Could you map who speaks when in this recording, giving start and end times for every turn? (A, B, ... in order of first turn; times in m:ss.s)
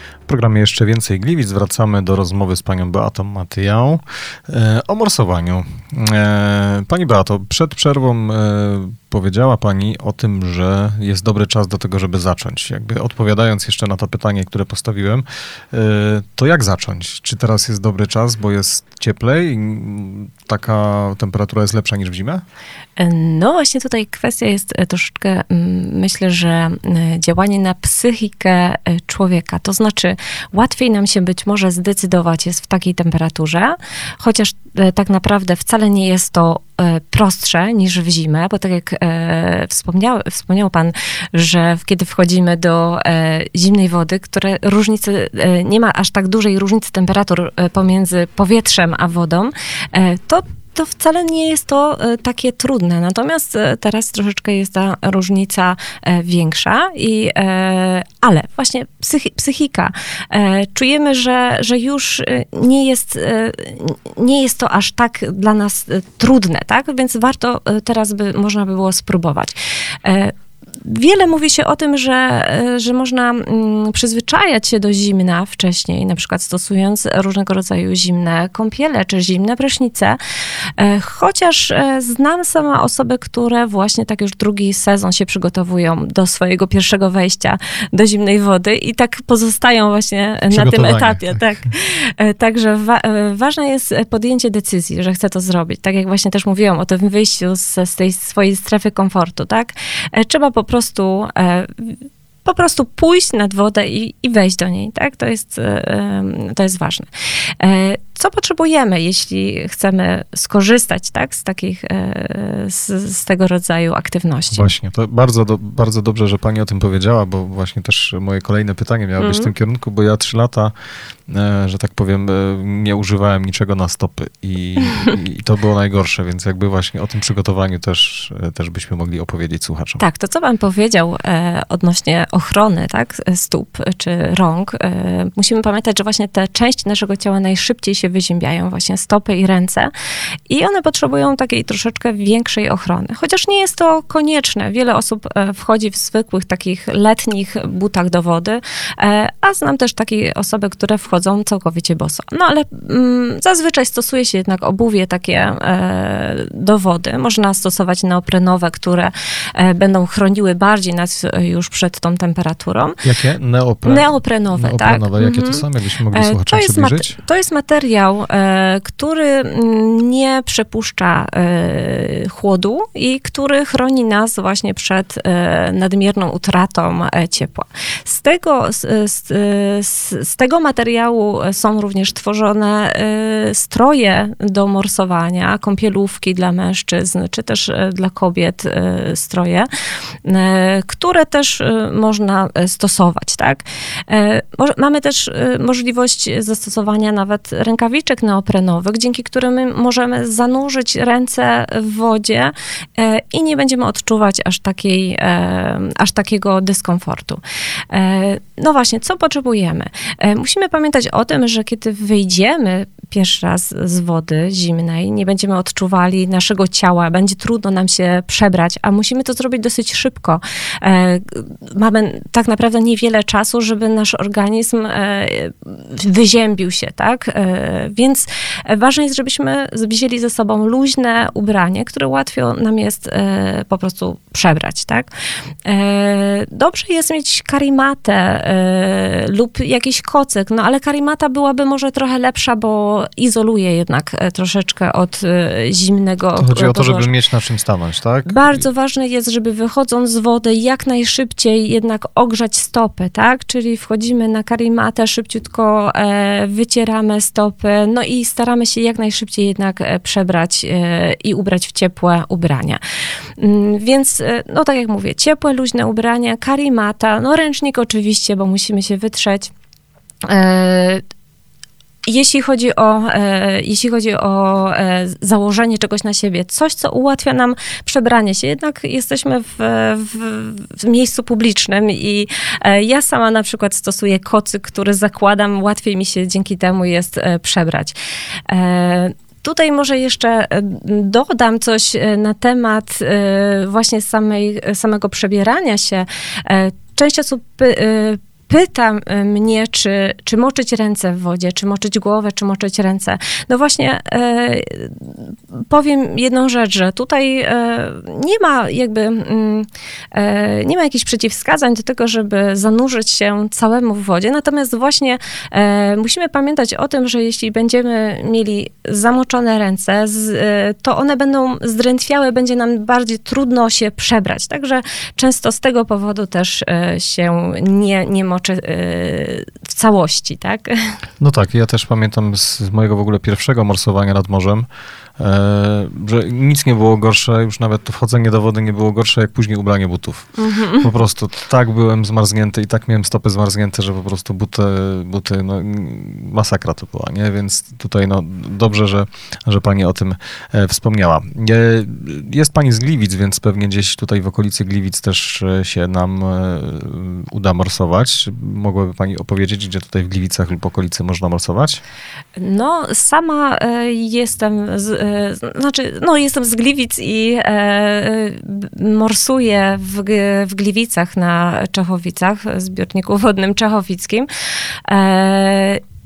0:00.3-0:22.4 A
0:23.0-1:20.2 B
1:20.8-1:47.1 B
1:30.5-1:31.4 A
1:47.6-1:54.7 B
1:54.5-2:00.7 A
1:59.2-1:59.5 B
2:01.3-2:10.0 A
2:10.0-2:19.9 B
2:20.5-2:43.0 B
2:43.0-2:47.2 A
2:43.8-3:09.7 B
3:10.2-3:27.4 B
3:27.9-3:55.1 B
3:55.6-4:07.1 B
4:06.4-4:08.6 A
4:08.3-4:22.8 B
4:23.4-4:29.5 B
4:30.2-4:31.0 B
4:32.1-4:47.9 B
4:48.5-5:30.9 B
5:31.2-5:34.6 A
5:35.2-6:01.8 A
5:40.4-5:40.9 B
6:02.4-6:14.3 B
6:14.9-6:15.8 B